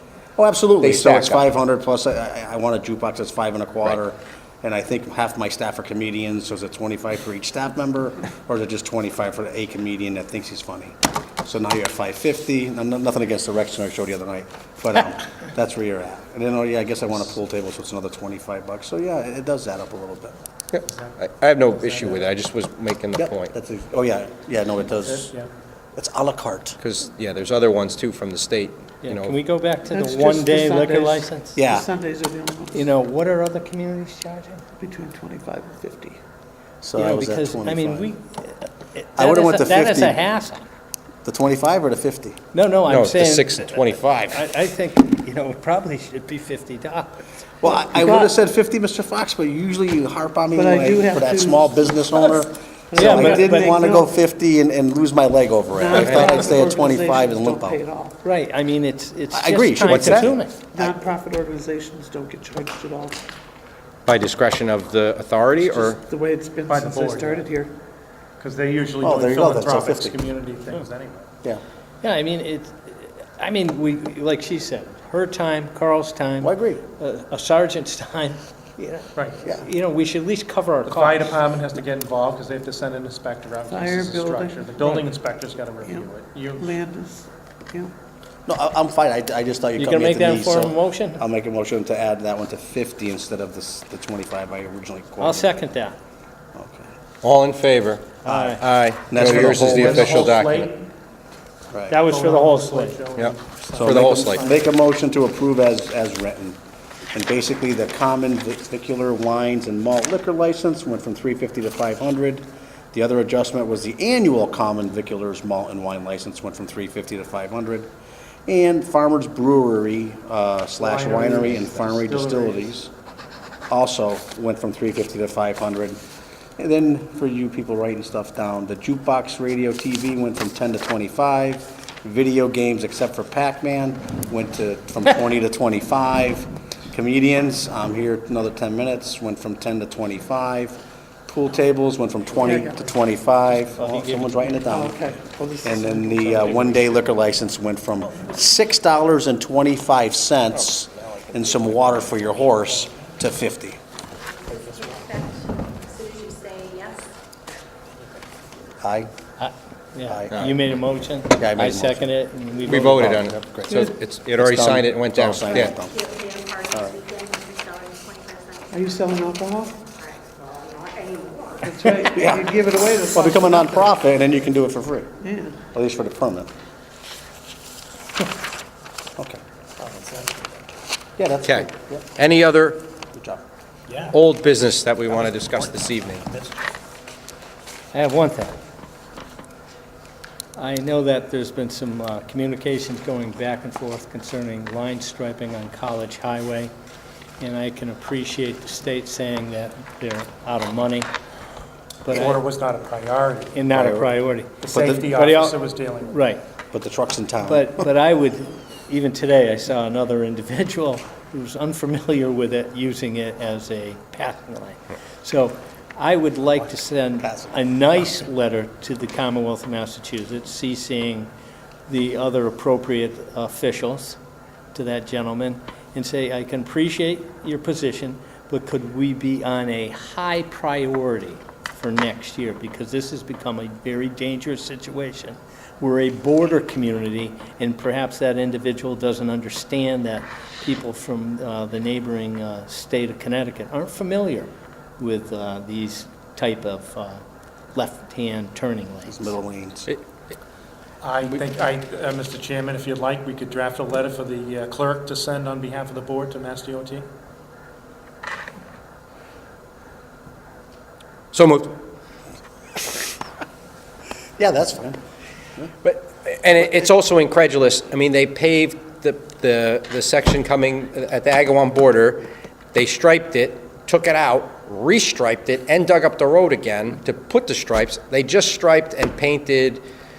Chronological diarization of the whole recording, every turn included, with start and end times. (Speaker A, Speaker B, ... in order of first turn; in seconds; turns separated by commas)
Speaker A: 0.4-20.4, Speaker B: 0.8-1.5, Speaker B: 20.7-23.5, Speaker C: 20.8-22.3, Speaker A: 23.1-25.3, Speaker C: 25.0-25.5, Speaker A: 25.9-26.8, Speaker B: 26.8-29.4, Speaker D: 29.0-31.6, Speaker E: 29.9-32.9, Speaker A: 31.6-31.9, Speaker D: 32.7-34.6, Speaker E: 34.8-36.2, Speaker A: 36.8-38.1, Speaker D: 37.0-40.7, Speaker A: 39.2-40.2, Speaker A: 41.2-42.4, Speaker D: 42.5-47.2, Speaker B: 42.9-44.5, Speaker A: 47.6-57.8, Speaker E: 47.7-48.3, Speaker E: 50.5-52.4, Speaker E: 52.9-54.1, Speaker D: 53.0-53.7, Speaker E: 55.7-58.2, Speaker B: 55.9-56.5, Speaker D: 58.2-60.6, Speaker A: 59.3-61.0, Speaker B: 59.9-60.4, Speaker E: 60.7-63.2, Speaker B: 64.1-66.0, Speaker E: 65.7-67.8, Speaker C: 66.7-67.5, Speaker C: 68.4-71.3, Speaker A: 69.0-70.2, Speaker D: 72.0-81.3, Speaker A: 76.4-76.8, Speaker C: 80.9-86.8, Speaker E: 83.7-85.1, Speaker E: 86.6-87.9, Speaker A: 88.5-95.6, Speaker D: 89.8-91.2, Speaker D: 95.2-96.0, Speaker A: 96.5-96.9, Speaker B: 97.2-100.7, Speaker A: 98.2-100.3, Speaker D: 98.3-98.6, Speaker C: 99.3-100.9, Speaker A: 101.7-102.0, Speaker D: 101.9-103.0, Speaker C: 102.0-104.6, Speaker B: 103.2-104.5, Speaker A: 103.8-106.6, Speaker A: 107.1-117.9, Speaker A: 118.5-122.9, Speaker C: 120.8-122.8, Speaker A: 123.7-126.0, Speaker A: 126.6-145.1, Speaker E: 142.4-142.8, Speaker D: 143.8-144.7, Speaker E: 144.7-147.0, Speaker A: 145.6-153.8, Speaker B: 150.9-152.5, Speaker F: 154.2-157.6, Speaker C: 154.6-155.0, Speaker A: 158.8-159.1, Speaker D: 159.4-163.3, Speaker A: 160.1-160.4, Speaker B: 160.3-160.6, Speaker A: 161.4-166.0, Speaker B: 162.7-165.7, Speaker F: 165.5-172.3, Speaker E: 168.7-169.8, Speaker E: 171.6-173.9, Speaker A: 172.1-172.6, Speaker A: 173.1-175.1, Speaker E: 175.2-175.7, Speaker A: 175.7-176.5, Speaker C: 179.8-180.6, Speaker A: 181.2-182.1, Speaker B: 181.4-182.9, Speaker A: 183.1-183.4, Speaker C: 183.9-184.2, Speaker B: 184.1-186.2, Speaker C: 185.1-186.6, Speaker D: 187.9-188.6, Speaker D: 190.6-196.7, Speaker D: 197.4-201.1, Speaker D: 202.0-202.4, Speaker C: 202.1-203.6, Speaker D: 203.5-206.4, Speaker A: 203.7-204.1, Speaker C: 204.6-206.3, Speaker A: 204.7-205.1, Speaker A: 206.7-207.9, Speaker D: 207.4-221.3, Speaker A: 216.6-218.1, Speaker D: 221.9-224.2, Speaker D: 224.7-247.2, Speaker D: 247.7-249.4, Speaker A: 249.1-249.9, Speaker C: 251.0-257.1, Speaker B: 261.3-261.8, Speaker A: 264.4-265.0, Speaker B: 265.8-279.9